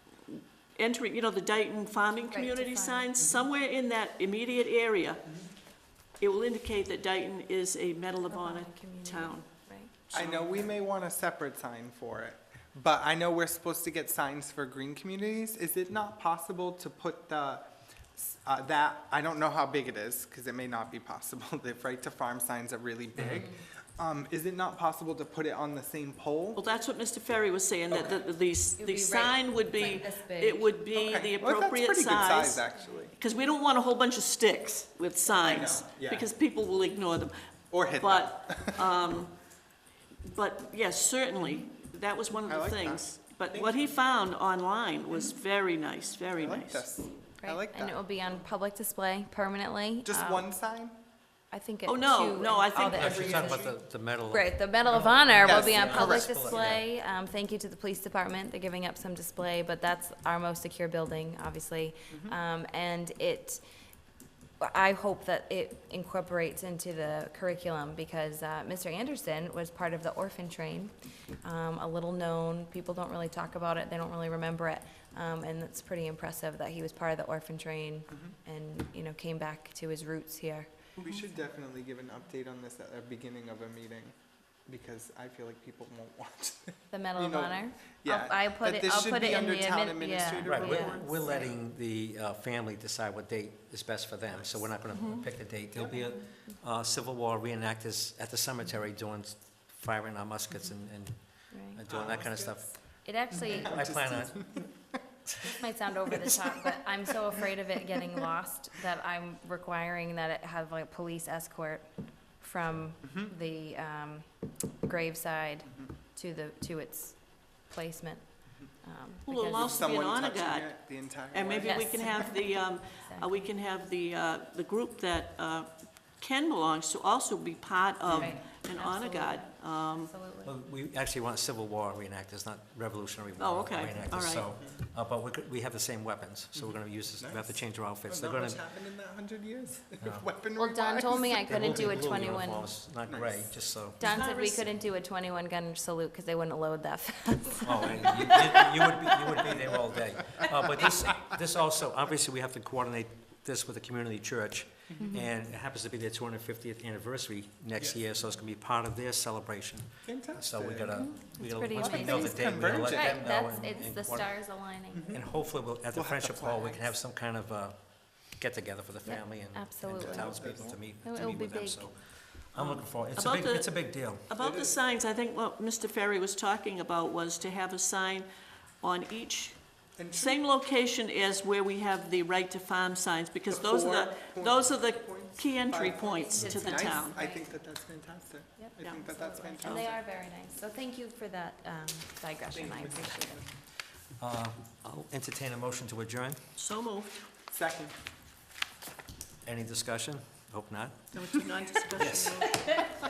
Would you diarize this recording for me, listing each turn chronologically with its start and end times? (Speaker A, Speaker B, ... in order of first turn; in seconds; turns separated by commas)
Speaker A: 0.3-5.3, Speaker B: 2.3-3.1, Speaker A: 6.2-9.5, Speaker B: 8.3-9.9, Speaker A: 10.1-10.6, Speaker C: 10.1-17.6, Speaker C: 18.2-26.6, Speaker D: 23.2-23.5, Speaker B: 23.3-23.6, Speaker A: 26.6-37.3, Speaker C: 27.9-28.2, Speaker B: 28.8-30.8, Speaker C: 30.9-33.1, Speaker C: 35.4-36.3, Speaker C: 37.7-38.9, Speaker A: 38.0-39.4, Speaker A: 40.2-46.8, Speaker C: 42.5-43.9, Speaker C: 46.4-48.4, Speaker B: 47.4-50.5, Speaker C: 50.0-51.0, Speaker B: 51.5-53.7, Speaker A: 51.9-53.2, Speaker C: 52.8-53.7, Speaker D: 52.9-56.8, Speaker B: 54.3-63.6, Speaker C: 55.4-56.7, Speaker C: 62.1-62.4, Speaker B: 64.6-80.7, Speaker C: 81.0-84.2, Speaker C: 84.7-91.5, Speaker B: 86.9-91.5, Speaker D: 90.5-102.8, Speaker C: 94.3-94.7, Speaker A: 94.9-95.3, Speaker B: 101.5-101.8, Speaker C: 101.9-102.7, Speaker B: 103.0-104.0, Speaker D: 103.3-104.6, Speaker C: 103.3-104.7, Speaker D: 105.3-105.6, Speaker B: 105.5-120.0, Speaker C: 106.1-106.8, Speaker A: 119.3-120.7, Speaker C: 119.5-122.1, Speaker A: 121.3-130.1, Speaker B: 121.6-123.5, Speaker B: 128.1-130.5, Speaker D: 130.4-138.6, Speaker A: 133.4-134.5, Speaker C: 136.6-142.1, Speaker D: 140.0-140.2, Speaker B: 140.6-142.7, Speaker D: 141.5-144.0, Speaker C: 143.1-143.6, Speaker B: 144.0-149.5, Speaker A: 144.0-144.7, Speaker D: 147.6-174.3, Speaker C: 147.9-148.2, Speaker C: 149.4-151.0, Speaker B: 155.0-155.3, Speaker C: 160.1-163.3, Speaker B: 160.9-165.2, Speaker C: 164.9-165.3, Speaker C: 165.9-166.9, Speaker B: 169.1-171.9, Speaker C: 169.9-170.8, Speaker A: 172.5-178.3, Speaker C: 174.4-174.8, Speaker A: 178.8-187.1, Speaker C: 180.0-180.4, Speaker C: 183.5-190.0, Speaker B: 186.0-187.6, Speaker B: 188.6-193.4, Speaker C: 192.5-193.5, Speaker D: 194.2-196.4, Speaker A: 196.6-197.2, Speaker C: 197.5-197.9, Speaker D: 199.4-201.0, Speaker A: 201.1-202.7, Speaker D: 202.0-202.8